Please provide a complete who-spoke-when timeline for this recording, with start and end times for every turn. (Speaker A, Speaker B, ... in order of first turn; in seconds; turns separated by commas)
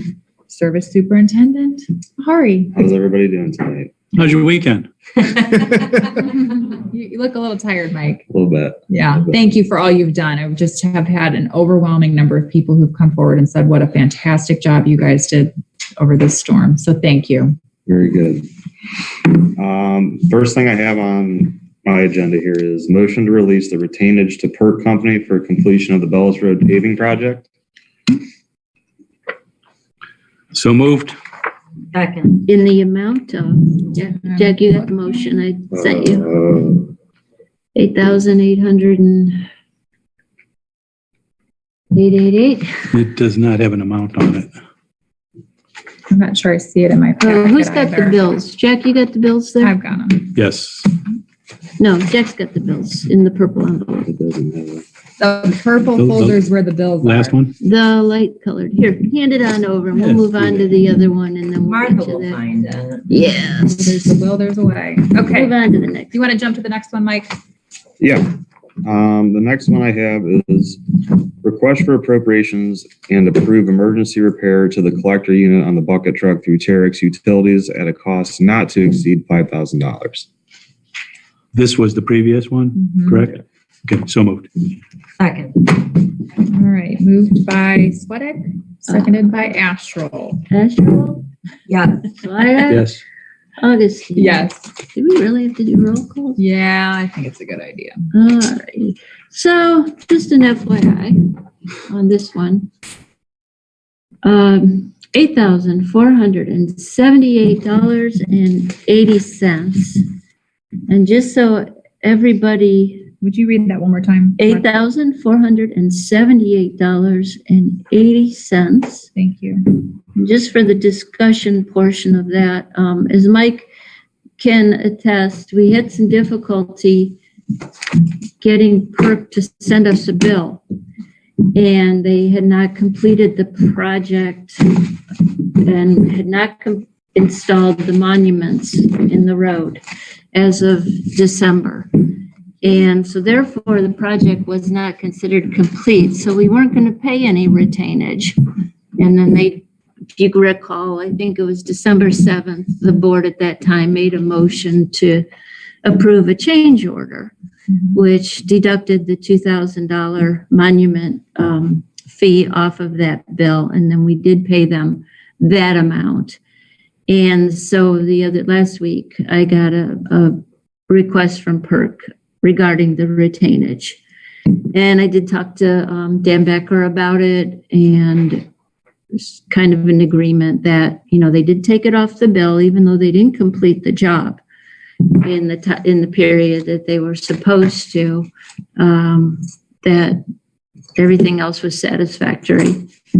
Speaker A: 0.5-2.8, Speaker B: 2.8-3.9, Speaker C: 4.2-4.9, Speaker A: 6.1-8.2, Speaker B: 8.3-9.3, Speaker A: 8.9-17.6, Speaker B: 17.9-18.5, Speaker B: 19.6-27.5, Speaker C: 30.5-31.2, Speaker D: 31.9-32.4, Speaker E: 32.4-36.3, Speaker A: 34.2-35.4, Speaker B: 35.7-36.9, Speaker E: 37.8-39.5, Speaker E: 41.9-42.9, Speaker C: 42.9-44.5, Speaker A: 46.1-48.2, Speaker E: 47.2-49.8, Speaker A: 49.6-50.3, Speaker C: 50.4-50.9, Speaker E: 51.8-54.1, Speaker B: 54.1-54.8, Speaker A: 55.2-57.4, Speaker C: 56.0-56.4, Speaker C: 57.0-57.5, Speaker E: 57.6-62.4, Speaker C: 59.9-60.8, Speaker D: 61.6-63.1, Speaker E: 63.1-64.1, Speaker A: 63.7-65.6, Speaker E: 65.2-66.3, Speaker A: 66.1-67.4, Speaker B: 68.0-80.3, Speaker C: 81.5-84.5, Speaker A: 82.7-83.3, Speaker D: 85.2-85.7, Speaker A: 86.5-90.4, Speaker E: 88.9-89.3, Speaker E: 90.5-91.3, Speaker D: 91.7-92.0, Speaker E: 92.1-93.0, Speaker C: 92.7-93.0, Speaker E: 93.6-96.4, Speaker A: 94.2-94.7, Speaker A: 96.4-98.1, Speaker E: 98.1-101.4, Speaker E: 101.9-102.7, Speaker E: 104.2-110.0, Speaker E: 110.9-113.1, Speaker A: 113.2-114.7, Speaker E: 114.4-119.1, Speaker A: 119.2-119.7, Speaker E: 120.2-123.7, Speaker E: 124.4-127.2, Speaker E: 128.4-130.6, Speaker E: 131.5-139.8, Speaker E: 140.3-148.4, Speaker E: 149.0-149.6, Speaker E: 150.2-155.3, Speaker E: 155.8-157.3, Speaker E: 157.9-166.4, Speaker E: 167.1-170.4, Speaker E: 170.9-174.0, Speaker E: 174.6-178.5, Speaker E: 179.1-184.4, Speaker E: 185.1-190.2, Speaker E: 191.0-192.9